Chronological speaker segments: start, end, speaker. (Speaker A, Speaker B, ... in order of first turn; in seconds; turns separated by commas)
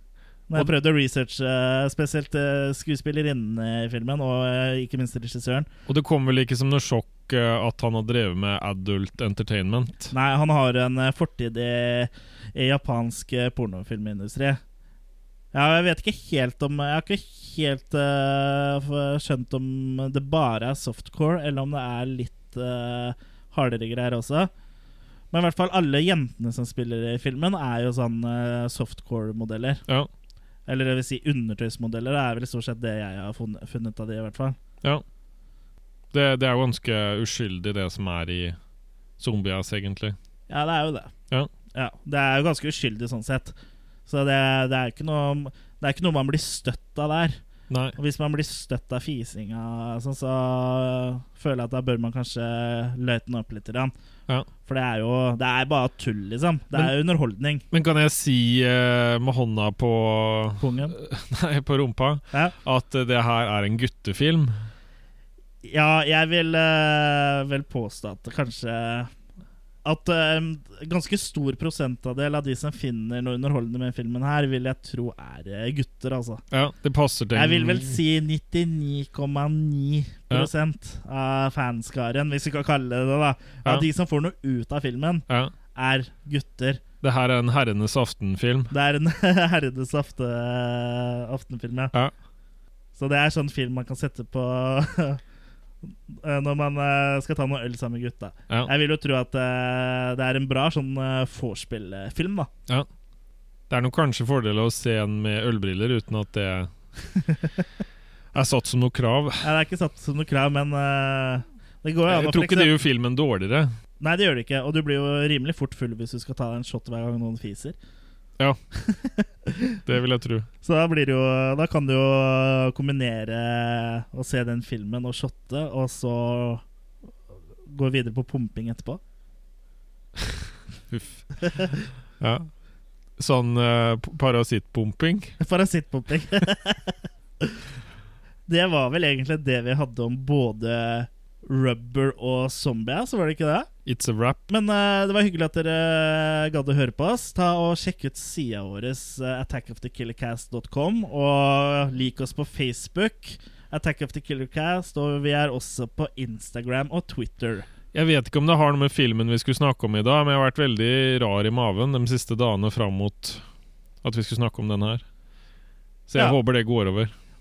Speaker A: 0.5-5.7, Speaker B: 5.9-10.1, Speaker A: 10.1-14.6, Speaker A: 15.5-24.5, Speaker A: 25.3-29.8, Speaker A: 30.7-34.6, Speaker B: 36.1-38.6, Speaker B: 39.2-40.1, Speaker A: 40.5-41.1, Speaker A: 41.7-43.5, Speaker A: 44.1-47.4, Speaker B: 47.7-48.0, Speaker A: 48.0-53.9, Speaker A: 54.6-57.6, Speaker B: 57.7-64.5, Speaker A: 60.6-61.0, Speaker A: 65.6-69.1, Speaker A: 69.8-76.4, Speaker B: 76.5-78.0, Speaker A: 77.3-86.8, Speaker B: 87.0-88.7, Speaker A: 88.7-91.9, Speaker A: 92.9-95.2, Speaker A: 95.8-102.5, Speaker B: 103.7-106.7, Speaker B: 108.3-109.5, Speaker A: 109.4-112.7, Speaker B: 112.1-113.7, Speaker A: 114.0-117.8, Speaker A: 118.8-119.8, Speaker B: 119.8-120.5, Speaker A: 120.6-126.6, Speaker A: 127.6-129.0, Speaker B: 130.9-131.2, Speaker A: 131.5-131.7, Speaker B: 132.2-132.5, Speaker B: 133.2-135.4, Speaker A: 135.4-137.6, Speaker A: 138.5-143.7, Speaker B: 143.8-144.4, Speaker A: 144.5-157.7, Speaker B: 157.9-163.4, Speaker B: 164.0-165.0, Speaker B: 166.1-167.1